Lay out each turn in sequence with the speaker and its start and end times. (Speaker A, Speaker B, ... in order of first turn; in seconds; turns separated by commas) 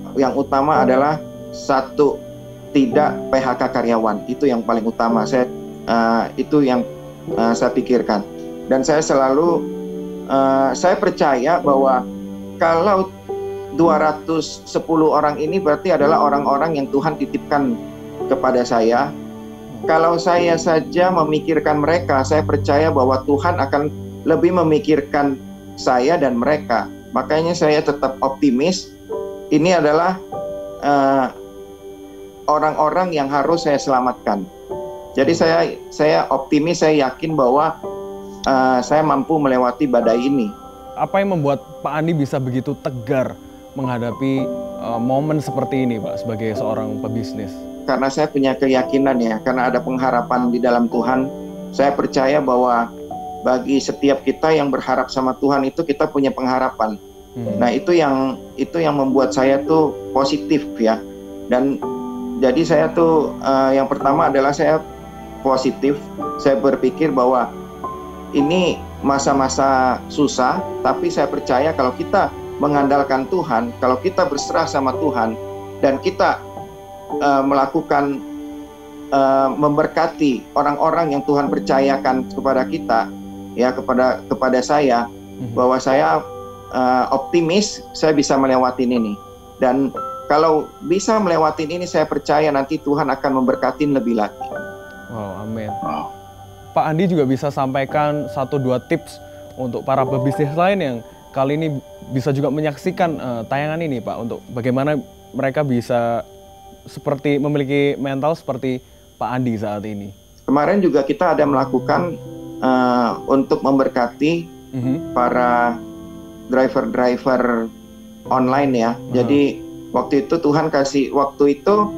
Speaker A: 0.2-2.1, Speaker A: 2.7-6.8, Speaker A: 7.4-9.6, Speaker A: 10.3-12.0, Speaker A: 12.6-13.1, Speaker A: 13.8-17.7, Speaker A: 18.3-19.1, Speaker A: 19.9-28.9, Speaker A: 29.5-30.1, Speaker A: 30.9-31.3, Speaker A: 32.5-34.5, Speaker A: 35.1-37.7, Speaker A: 38.5-40.5, Speaker B: 41.0-47.6, Speaker A: 47.9-52.8, Speaker A: 53.5-57.0, Speaker B: 57.4-57.7, Speaker A: 57.6-61.0, Speaker A: 62.4-64.8, Speaker A: 65.4-67.5, Speaker A: 68.3-76.4, Speaker A: 77.2-78.2, Speaker A: 79.1-83.0, Speaker A: 83.6-85.0, Speaker A: 85.6-86.2, Speaker A: 86.7-94.5, Speaker B: 95.1-95.8, Speaker B: 96.7-106.2, Speaker B: 106.9-110.1, Speaker A: 110.5-112.1, Speaker A: 112.6-114.5, Speaker B: 114.8-115.0, Speaker A: 115.1-115.8, Speaker A: 116.5-117.6, Speaker A: 118.3-121.8, Speaker B: 119.1-119.4